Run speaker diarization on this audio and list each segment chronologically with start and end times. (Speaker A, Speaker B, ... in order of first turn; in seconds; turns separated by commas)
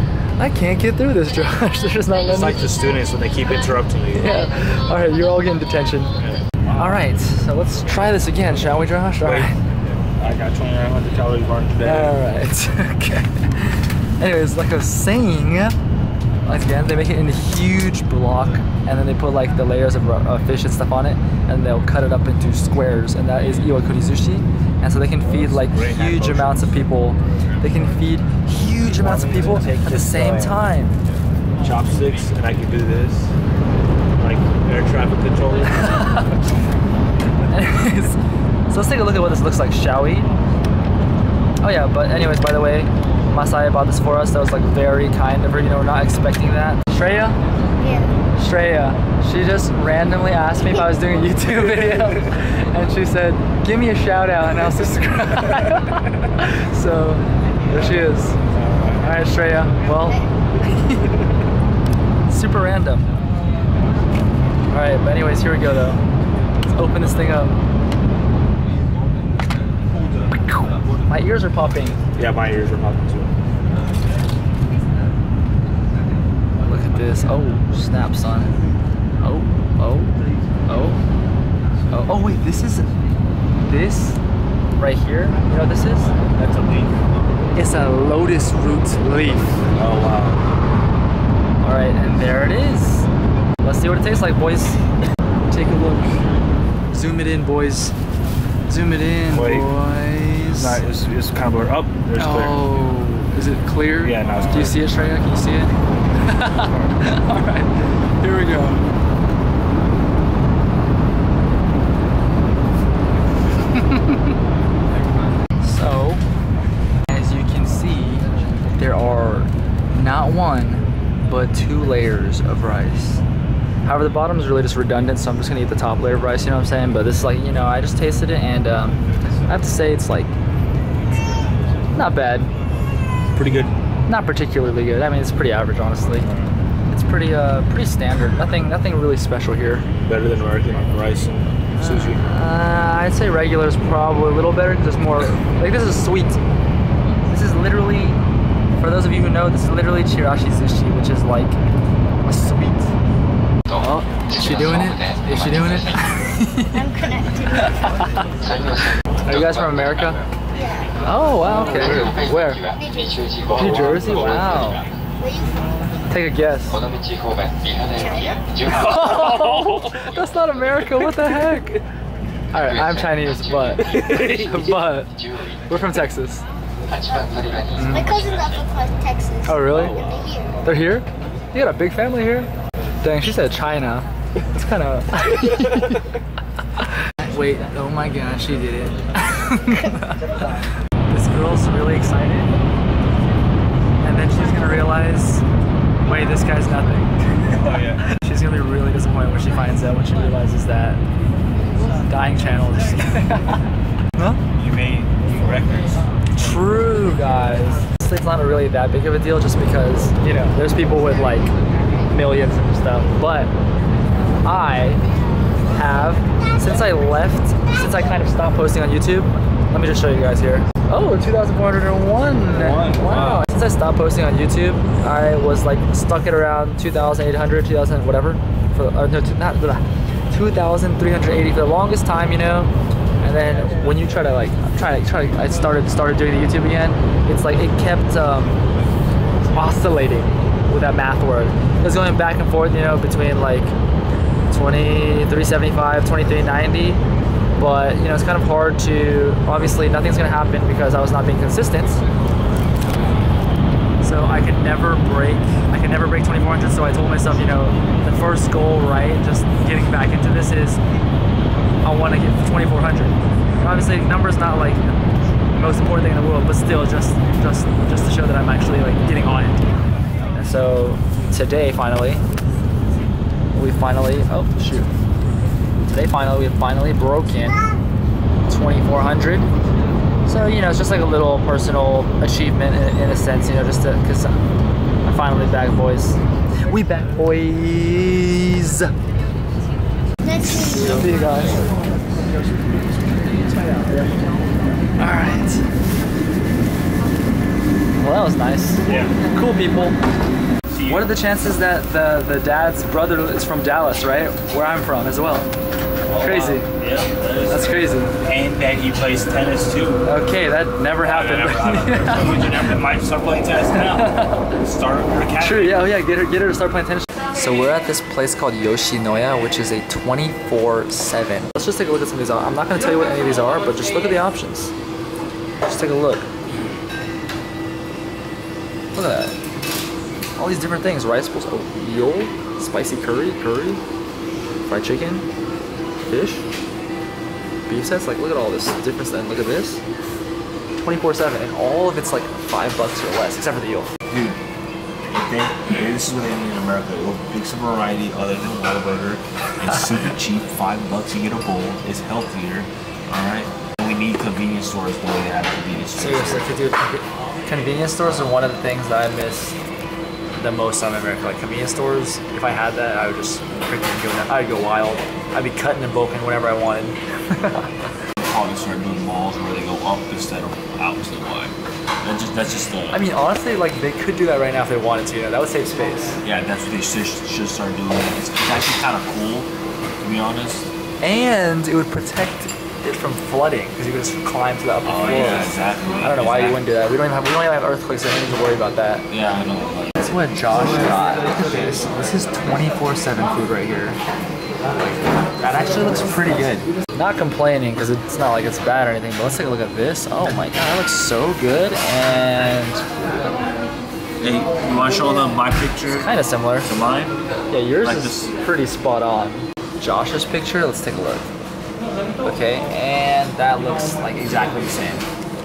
Speaker A: 0.4-2.6, Speaker B: 2.2-4.4, Speaker A: 4.1-6.2, Speaker B: 6.2-7.0, Speaker A: 6.8-9.6, Speaker B: 9.2-12.2, Speaker A: 11.8-15.8, Speaker A: 16.4-31.0, Speaker B: 25.3-26.7, Speaker B: 28.9-30.6, Speaker B: 31.6-33.3, Speaker B: 34.2-36.2, Speaker A: 35.6-36.4, Speaker A: 37.5-40.3, Speaker A: 41.6-47.4, Speaker C: 47.8-48.2, Speaker A: 48.4-58.4, Speaker B: 58.5-59.0, Speaker A: 59.0-61.2, Speaker A: 62.3-63.0, Speaker A: 64.7-66.0, Speaker A: 66.7-67.6, Speaker A: 70.5-72.0, Speaker B: 72.2-73.3, Speaker A: 76.6-78.5, Speaker A: 79.2-80.2, Speaker A: 80.7-81.0, Speaker A: 81.9-82.9, Speaker A: 83.6-84.2, Speaker A: 84.8-86.1, Speaker B: 86.3-87.0, Speaker A: 87.5-89.6, Speaker B: 89.6-90.4, Speaker A: 91.6-93.1, Speaker A: 93.6-94.8, Speaker A: 95.5-96.2, Speaker A: 96.9-97.9, Speaker A: 98.7-100.8, Speaker B: 99.3-99.7, Speaker B: 100.5-102.8, Speaker A: 102.2-108.8, Speaker B: 104.0-104.8, Speaker B: 106.7-106.9, Speaker A: 113.7-114.3, Speaker A: 115.6-116.2, Speaker A: 117.1-123.2, Speaker A: 123.8-130.3, Speaker A: 131.9-132.5, Speaker B: 133.3-133.7, Speaker A: 134.1-136.3, Speaker A: 136.9-139.9, Speaker B: 140.0-142.2, Speaker A: 141.8-146.4, Speaker A: 147.3-148.2, Speaker A: 148.8-151.6, Speaker A: 152.2-152.9, Speaker A: 153.8-156.8, Speaker C: 156.7-157.9, Speaker A: 157.6-158.1, Speaker A: 159.2-160.2, Speaker C: 160.6-160.9, Speaker A: 161.0-162.6, Speaker C: 162.7-163.2, Speaker A: 163.5-164.8, Speaker C: 165.2-165.6, Speaker A: 166.1-166.8, Speaker C: 167.9-168.6, Speaker A: 168.7-171.8, Speaker A: 172.5-175.1, Speaker A: 175.7-176.4, Speaker A: 177.8-178.2, Speaker C: 177.9-180.5, Speaker A: 179.4-180.0, Speaker B: 179.9-180.2, Speaker A: 180.6-182.5, Speaker A: 183.0-186.0, Speaker A: 186.8-192.5, Speaker A: 194.0-195.4, Speaker A: 196.0-201.0, Speaker B: 197.5-198.1, Speaker A: 202.1-203.6, Speaker B: 204.5-206.0, Speaker A: 206.3-211.5, Speaker A: 212.1-213.5, Speaker A: 214.4-215.0, Speaker A: 215.7-238.6, Speaker B: 222.4-223.5, Speaker A: 239.5-243.7, Speaker A: 244.5-247.0, Speaker A: 247.6-252.0, Speaker A: 254.0-260.8, Speaker A: 261.8-264.8, Speaker A: 265.5-269.6, Speaker A: 270.3-272.2, Speaker A: 273.5-274.9, Speaker A: 275.9-277.6, Speaker A: 278.5-279.5, Speaker A: 280.2-284.4, Speaker A: 285.0-288.9, Speaker A: 290.4-291.7, Speaker B: 290.7-291.1, Speaker B: 292.7-293.3, Speaker A: 293.8-294.1, Speaker A: 295.0-295.6, Speaker A: 298.0-300.0, Speaker B: 298.8-299.1, Speaker B: 300.7-301.1, Speaker A: 300.9-305.5, Speaker B: 306.1-310.1, Speaker A: 306.2-306.7, Speaker A: 307.5-308.1, Speaker A: 310.0-312.7, Speaker B: 311.0-315.9, Speaker A: 313.7-314.5, Speaker A: 315.4-324.7, Speaker A: 325.6-326.3, Speaker A: 328.9-329.4, Speaker A: 330.4-333.8, Speaker A: 334.7-335.2, Speaker A: 336.1-336.5, Speaker A: 337.7-339.8, Speaker A: 340.8-343.9, Speaker B: 344.1-344.4, Speaker B: 345.1-356.5, Speaker A: 355.9-359.6, Speaker A: 360.4-367.7, Speaker B: 368.2-373.0, Speaker A: 372.9-376.2, Speaker B: 376.2-379.5, Speaker B: 380.0-380.7, Speaker A: 381.0-389.1, Speaker B: 384.8-386.6, Speaker B: 389.1-389.9, Speaker A: 390.0-394.0, Speaker A: 394.7-402.8, Speaker B: 404.2-406.1, Speaker A: 405.9-406.7, Speaker B: 406.6-407.2, Speaker A: 407.5-411.3, Speaker B: 407.8-408.3, Speaker A: 412.2-415.1